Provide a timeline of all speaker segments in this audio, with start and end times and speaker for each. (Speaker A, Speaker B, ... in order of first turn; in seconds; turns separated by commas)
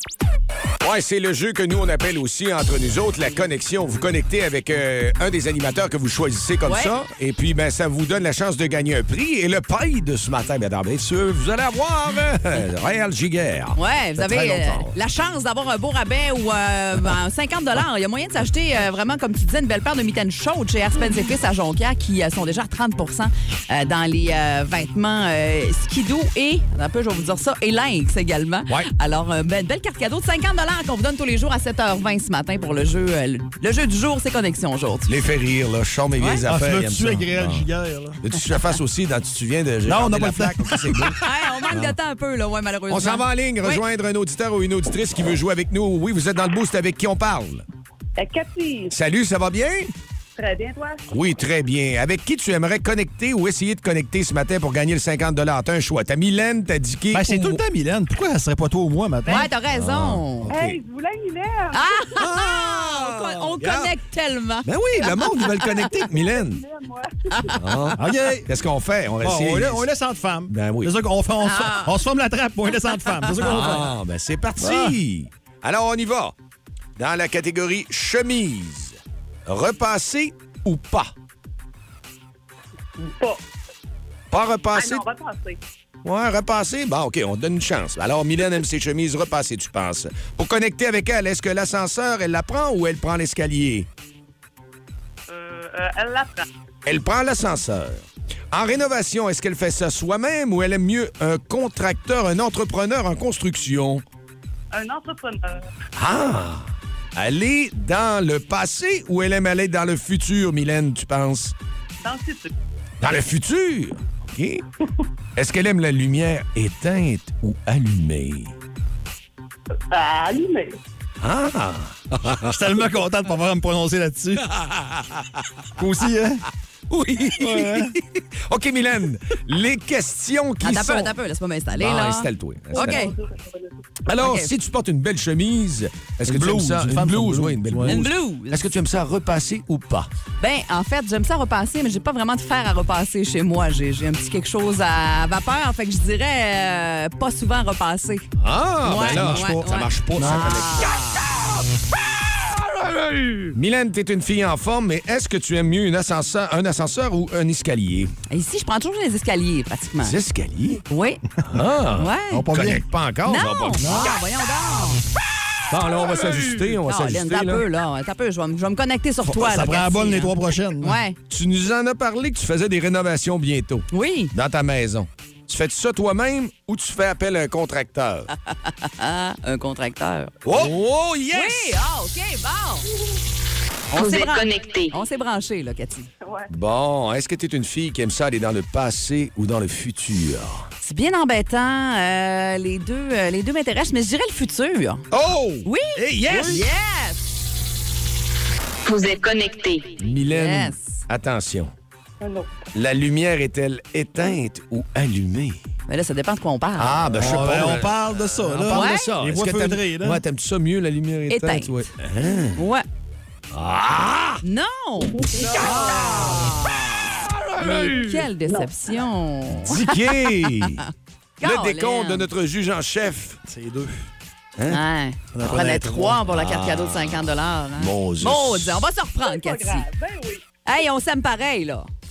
Speaker A: 0.8-13.8, Speaker B: 6.7-6.9, Speaker B: 13.8-35.1, Speaker A: 35.1-37.6, Speaker C: 36.5-38.2, Speaker A: 38.2-41.2, Speaker C: 39.9-41.2, Speaker B: 41.2-43.8, Speaker A: 42.9-47.6, Speaker D: 48.2-48.9, Speaker A: 48.9-49.9, Speaker D: 50.4-51.0, Speaker A: 51.1-57.6, Speaker C: 57.1-59.5, Speaker B: 59.3-60.5, Speaker A: 59.7-60.8, Speaker D: 60.5-62.2, Speaker B: 61.7-65.8, Speaker A: 62.2-63.9, Speaker A: 64.7-66.6, Speaker D: 66.0-67.6, Speaker B: 67.3-67.6, Speaker A: 67.6-69.9, Speaker C: 68.0-68.5, Speaker C: 69.2-74.0, Speaker A: 70.5-70.9, Speaker B: 71.4-72.0, Speaker B: 73.1-73.4, Speaker A: 73.4-76.3, Speaker C: 74.6-75.0, Speaker A: 77.0-81.1, Speaker D: 83.0-83.4, Speaker A: 84.3-85.0, Speaker D: 84.8-85.6, Speaker A: 86.0-93.9, Speaker D: 95.3-96.5, Speaker A: 96.8-104.0, Speaker D: 104.7-105.6, Speaker A: 106.0-111.5, Speaker D: 112.0-112.5, Speaker A: 113.0-114.6, Speaker A: 115.4-118.5, Speaker D: 119.9-120.7, Speaker A: 121.2-122.6, Speaker C: 122.4-124.5, Speaker A: 124.5-125.3, Speaker C: 125.8-126.4, Speaker A: 126.9-131.2, Speaker C: 127.4-128.0, Speaker B: 130.6-133.1, Speaker A: 131.7-133.1, Speaker D: 132.7-133.7, Speaker A: 134.1-140.1, Speaker B: 134.2-134.5, Speaker C: 136.3-138.1, Speaker B: 137.9-138.6, Speaker B: 140.4-148.3, Speaker A: 148.4-151.5, Speaker B: 148.8-151.3, Speaker C: 149.1-149.6, Speaker A: 152.7-158.1, Speaker B: 158.3-160.2, Speaker A: 160.0-160.8, Speaker B: 160.9-161.2, Speaker A: 161.5-164.1, Speaker B: 162.0-162.5, Speaker C: 162.3-162.8, Speaker B: 163.3-165.0, Speaker C: 163.8-164.1, Speaker A: 165.7-167.7, Speaker B: 166.9-171.2, Speaker C: 169.2-171.0, Speaker A: 171.3-178.3, Speaker B: 173.9-174.3, Speaker B: 178.5-180.4, Speaker A: 180.4-181.8, Speaker B: 181.3-182.9, Speaker B: 183.9-186.1, Speaker E: 183.9-184.9, Speaker D: 186.2-186.5, Speaker A: 186.5-190.7, Speaker B: 190.8-195.1, Speaker A: 195.1-196.6, Speaker B: 195.7-197.3, Speaker E: 198.8-199.9, Speaker A: 200.0-201.7, Speaker B: 200.3-201.0, Speaker D: 202.2-202.6, Speaker A: 202.7-205.6, Speaker B: 205.9-207.1, Speaker A: 206.8-212.6, Speaker C: 207.1-210.2, Speaker B: 208.7-209.1, Speaker B: 211.3-211.7, Speaker B: 212.6-212.8, Speaker A: 213.5-214.4, Speaker B: 214.4-216.9, Speaker D: 215.2-216.2, Speaker A: 215.5-218.2, Speaker B: 217.6-220.9, Speaker D: 218.4-218.7, Speaker A: 219.6-220.8, Speaker B: 221.4-222.3, Speaker A: 221.4-223.4, Speaker C: 223.5-224.1, Speaker B: 224.7-229.9, Speaker C: 225.3-226.2, Speaker A: 226.3-228.8, Speaker D: 229.2-230.4, Speaker B: 230.7-231.9